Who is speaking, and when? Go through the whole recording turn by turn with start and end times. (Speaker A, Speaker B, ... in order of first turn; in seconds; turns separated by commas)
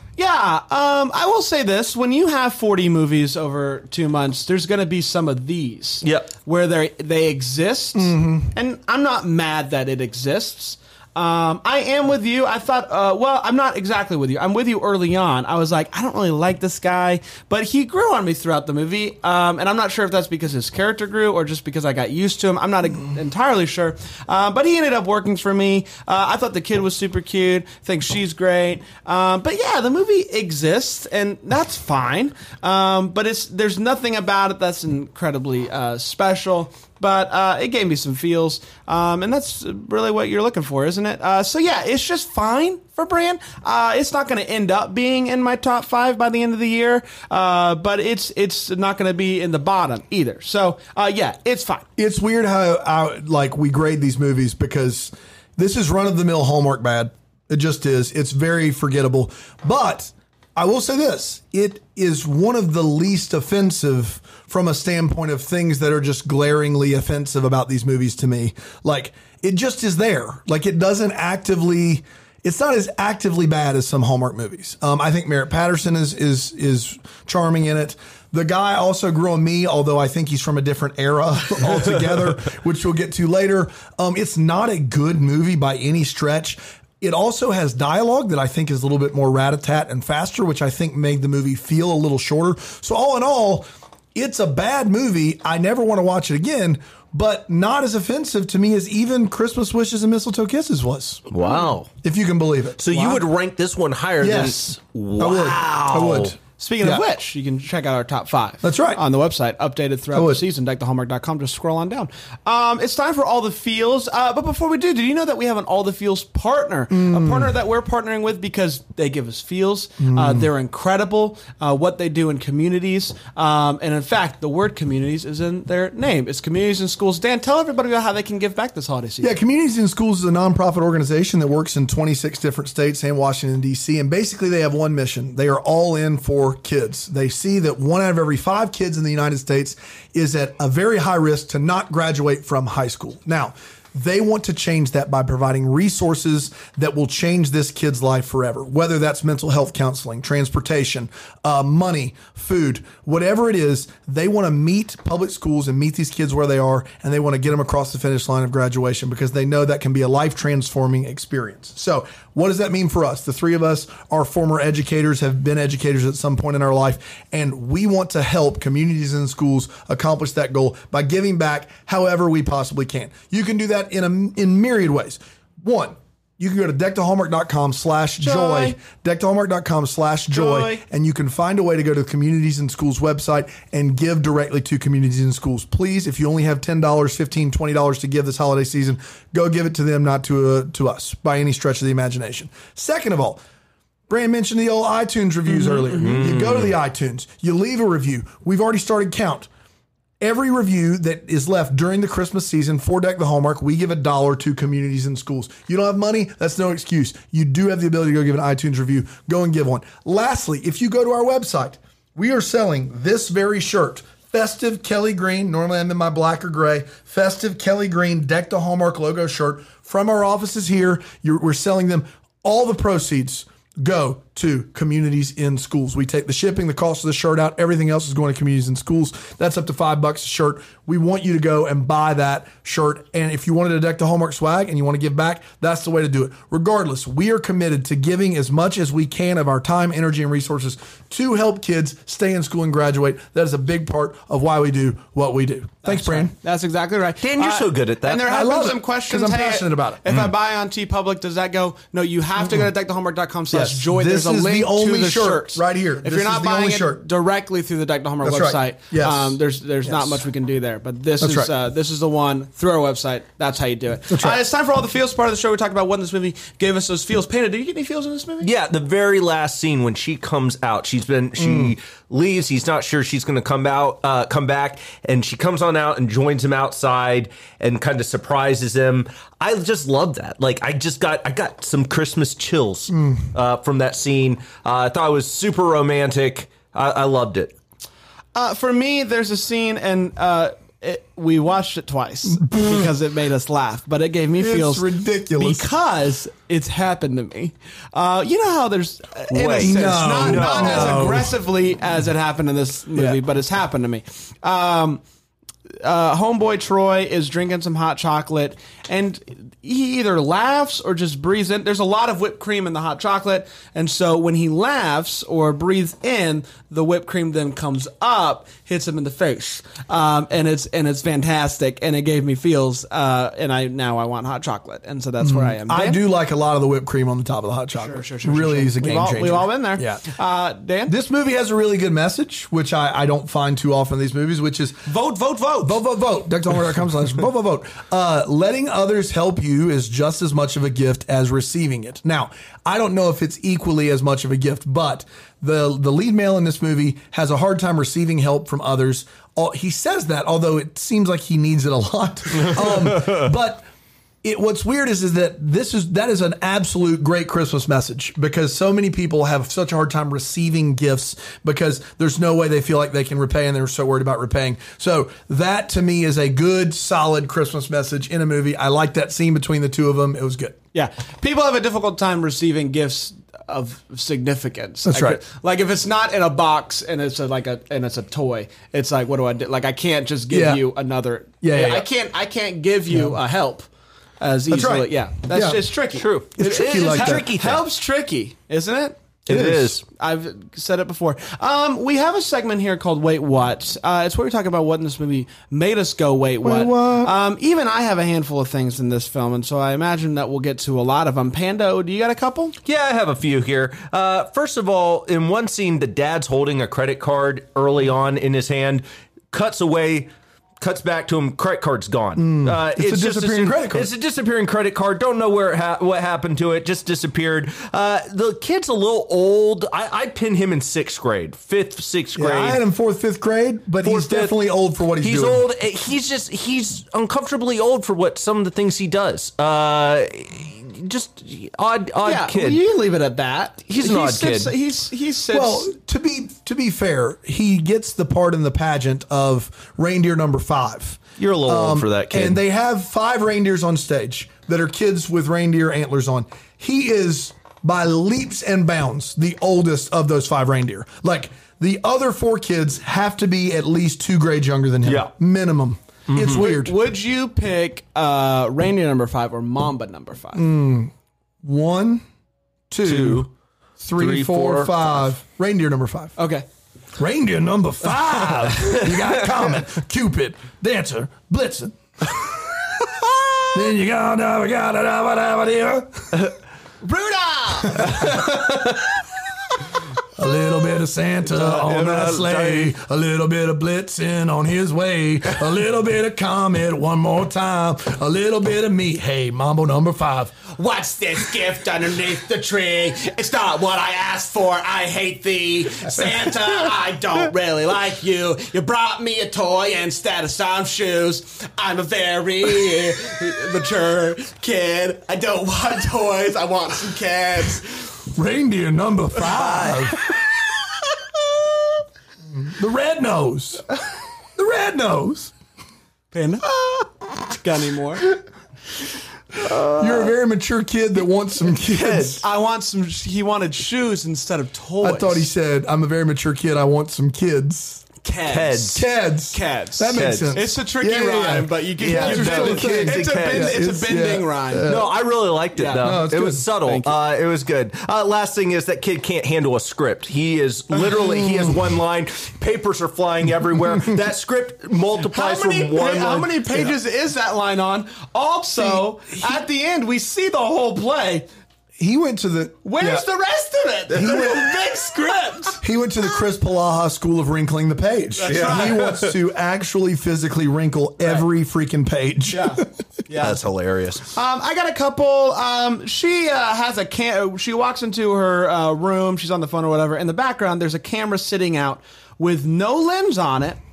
Speaker A: 0.2-51.9, Speaker B: 6.0-6.3, Speaker C: 8.0-8.5, Speaker C: 52.0-101.3, Speaker B: 101.3-101.9, Speaker C: 102.0-103.0, Speaker B: 102.8-106.3, Speaker A: 102.9-103.2, Speaker C: 104.2-107.0, Speaker A: 106.6-129.4, Speaker C: 108.6-109.0, Speaker C: 110.1-110.4, Speaker C: 116.9-117.5, Speaker C: 120.0-120.5, Speaker C: 129.2-193.4, Speaker A: 178.2-178.8, Speaker A: 180.3-180.8, Speaker C: 194.1-199.5, Speaker B: 196.0-196.7, Speaker C: 200.2-246.3, Speaker A: 245.8-268.5, Speaker B: 247.2-248.3, Speaker C: 248.2-250.1, Speaker C: 253.5-257.0, Speaker C: 258.2-260.2, Speaker C: 261.2-261.5, Speaker C: 264.1-264.4, Speaker B: 268.4-287.5, Speaker C: 271.4-271.7, Speaker A: 288.4-305.0, Speaker C: 292.4-292.9, Speaker C: 294.4-295.7, Speaker B: 299.3-301.2, Speaker C: 299.5-301.3, Speaker A: 305.8-326.0, Speaker C: 325.2-330.1, Speaker A: 327.8-330.9, Speaker C: 330.9-334.9, Speaker A: 334.9-335.8, Speaker C: 335.6-353.6, Speaker C: 354.2-370.6, Speaker A: 370.7-383.7, Speaker C: 374.9-375.2, Speaker C: 380.3-380.6, Speaker C: 381.4-381.9, Speaker C: 382.9-383.2, Speaker A: 384.2-389.1, Speaker C: 384.5-385.7, Speaker B: 386.0-387.6, Speaker C: 386.4-387.3, Speaker B: 389.3-389.8, Speaker C: 389.3-389.8, Speaker A: 389.8-402.6, Speaker C: 396.4-397.1, Speaker B: 402.6-422.6, Speaker C: 412.2-413.9, Speaker C: 422.1-425.4, Speaker B: 423.8-424.4, Speaker B: 425.0-432.6, Speaker A: 432.0-435.7, Speaker B: 433.7-434.5, Speaker C: 435.3-456.8, Speaker B: 441.2-442.4, Speaker B: 454.8-455.1, Speaker B: 456.1-456.4, Speaker A: 456.2-460.5, Speaker C: 460.3-460.9, Speaker C: 461.4-462.0, Speaker C: 462.7-466.2, Speaker B: 462.8-463.3, Speaker B: 464.0-464.9, Speaker A: 466.2-466.4, Speaker C: 467.0-472.6, Speaker C: 473.5-476.3, Speaker A: 476.8-478.1, Speaker C: 477.7-478.9, Speaker C: 480.2-490.4, Speaker B: 481.3-482.7, Speaker A: 490.5-507.9, Speaker C: 508.1-510.1, Speaker C: 512.4-513.7, Speaker C: 514.4-515.3, Speaker A: 516.1-518.2, Speaker C: 519.7-522.2, Speaker B: 521.7-522.2, Speaker A: 522.1-525.3, Speaker C: 524.8-527.9, Speaker A: 528.0-528.8, Speaker B: 528.3-528.8, Speaker C: 528.6-535.0, Speaker A: 529.3-534.7, Speaker B: 529.9-530.4, Speaker B: 531.8-533.6, Speaker B: 534.7-546.7, Speaker A: 535.6-536.0, Speaker C: 535.8-536.5, Speaker A: 536.6-536.9, Speaker A: 545.1-551.3, Speaker C: 551.8-553.0, Speaker A: 552.6-555.6, Speaker C: 553.9-554.5, Speaker C: 555.6-562.7, Speaker A: 558.2-558.9, Speaker B: 558.3-559.1, Speaker A: 562.3-563.4, Speaker B: 563.2-564.1, Speaker A: 564.1-573.6